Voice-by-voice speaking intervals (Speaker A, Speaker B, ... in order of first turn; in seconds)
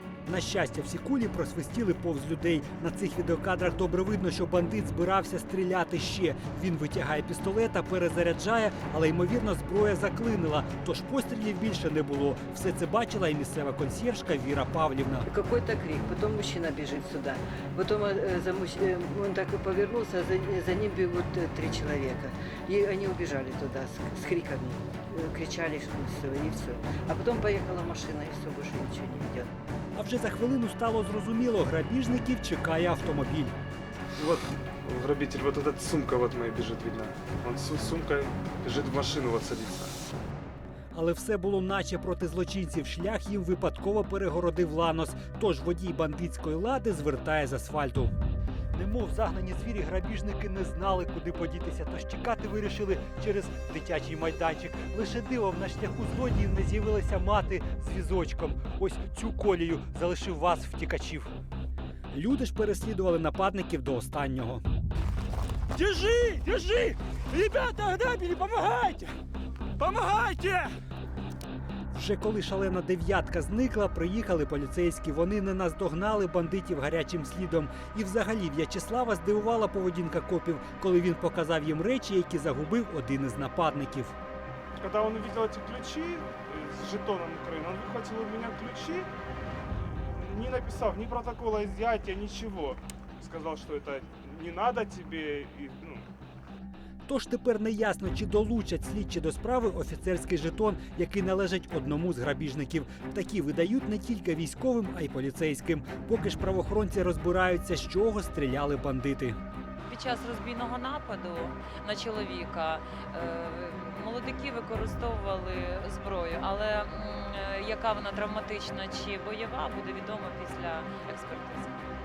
Speaker A: 0.3-15.3, 30.0-33.5, 40.9-48.1, 48.7-61.3, 62.1-64.6, 65.7-69.1, 69.8-70.7, 71.9-84.2, 97.1-109.4
Speaker B: 15.3-29.5
Speaker C: 34.2-40.0, 84.8-89.1, 89.8-96.1
Speaker D: 109.9-121.8